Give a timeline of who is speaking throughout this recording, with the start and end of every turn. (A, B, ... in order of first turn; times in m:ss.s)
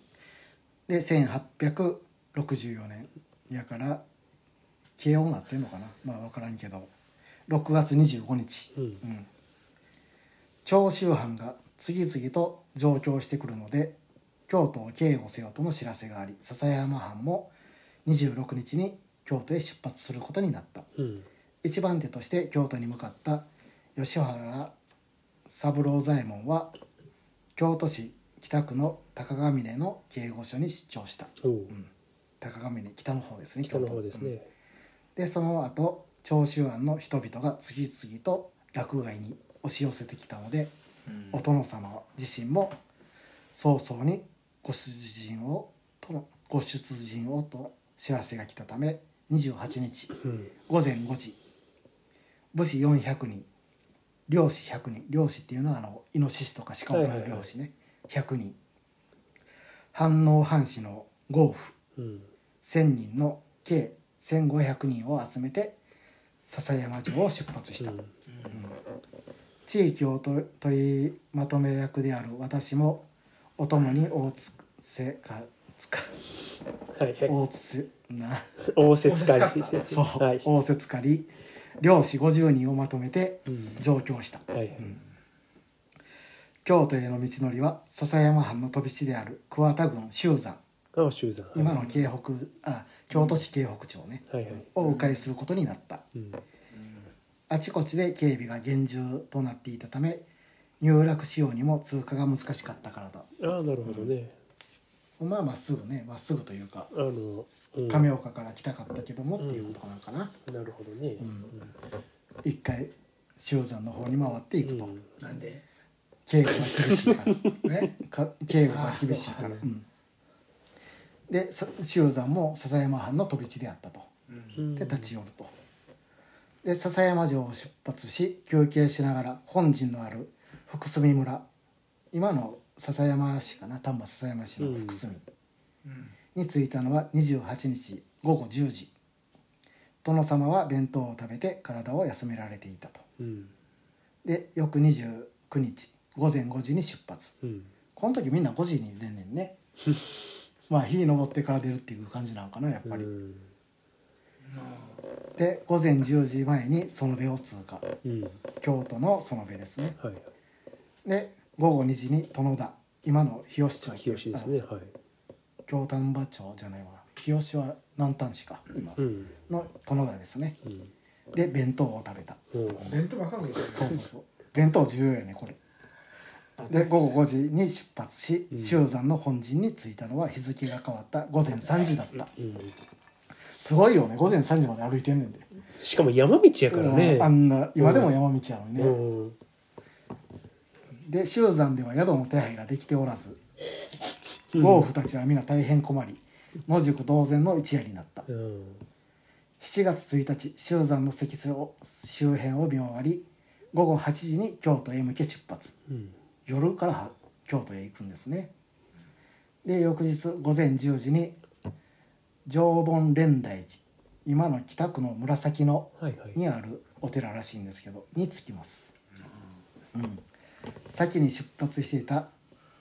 0:00.9-0:04.0 A
0:05.0-0:06.9 A
0:07.5-0:09.3 A
0:10.6-0:14.0 A
0:14.5-0:17.5 A
0:18.0-0:20.9 A
0:21.0-0:21.2 B
0:21.6-0:24.7 A
0:25.5-0:26.7 A
0:27.6-0:31.9 A
0:31.4-0:31.7 B
0:32.4-0:34.3 A
0:33.6-0:34.4 B
0:35.2-0:40.7 A
0:41.3-0:42.8 A
0:43.5-0:50.2 A
0:50.2-0:50.5 B
0:50.7-0:51.4 A
0:52.5-0:53.5 A
0:54.3-0:58.6 A
0:56.9-0:57.5 B
0:59.9-1:01.8 A
1:02.0-1:02.3 B
1:02.6-1:05.8 A
1:06.5-1:08.0 A
1:07.8-1:08.1 B
1:08.5-1:08.8 A
1:09.6-1:13.1 A
1:13.6-1:16.1 A
1:17.0-1:17.4 B
1:17.2-1:18.5 A
1:18.7-1:20.4 B
1:19.0-1:19.8 C
1:19.8-1:25.0 A
1:23.5-1:23.8 B
1:24.5-1:24.9 B
1:26.6-1:30.6 A
1:30.9-1:31.9 B
1:31.5-1:36.0 A
1:34.3-1:34.7 B
1:34.8-1:35.2 C
1:36.2-1:36.4 B
1:37.5-1:40.2 A
1:40.8-1:43.3 A
1:43.4-1:44.3 B
1:43.8-1:44.1 A
1:45.2-1:46.9 A
1:46.9-1:48.1 B
1:47.9-1:50.3 A
1:49.4-1:49.8 B
1:50.5-1:51.7 B
1:51.2-1:51.6 A
1:52.4-1:54.9 A
1:54.6-1:55.1 B
1:55.2-1:55.6 C
1:56.3-1:59.9 A
1:56.6-1:57.6 B
1:58.6-1:59.5 C
1:59.3-1:59.6 B
2:01.3-2:04.1 A
2:04.3-2:04.6 C
2:04.5-2:05.1 B
2:04.7-2:05.5 A
2:06.6-2:11.4 A
2:12.1-2:15.2 A
2:14.6-2:15.0 B
2:15.8-2:16.1 C
2:16.3-2:18.9 A
2:20.0-2:23.0 A
2:23.2-2:23.5 B
2:24.2-2:27.4 A
2:27.4-2:27.7 B
2:27.9-2:29.6 A
2:30.7-2:33.1 A
2:32.8-2:33.5 B
2:34.5-2:35.0 C
2:35.4-2:37.9 A
2:38.0-2:38.4 B
2:38.6-2:40.0 A
2:40.0-2:40.2 B
2:41.0-2:44.6 A
2:43.8-2:44.9 B
2:45.7-2:50.6 A
2:49.0-2:49.3 B
2:50.6-2:50.9 B
2:51.3-2:52.9 A
2:52.5-2:53.0 B
2:52.9-2:53.9 C
2:53.7-2:55.6 A
2:56.6-3:02.3 A
2:58.5-2:58.8 B
3:02.2-3:02.7 B
3:03.6-3:05.4 A
3:05.8-3:08.1 B
3:06.7-3:09.0 A
3:08.8-3:09.4 B
3:11.0-3:13.4 A
3:14.5-3:14.9 B
3:14.5-3:18.2 A
3:18.3-3:18.8 B
3:19.6-3:25.8 A
3:25.9-3:26.1 B
3:26.4-3:28.5 A
3:29.6-3:31.4 A
3:32.4-3:38.9 A
3:36.0-3:36.4 B
3:39.9-3:40.2 A
3:40.9-3:42.3 A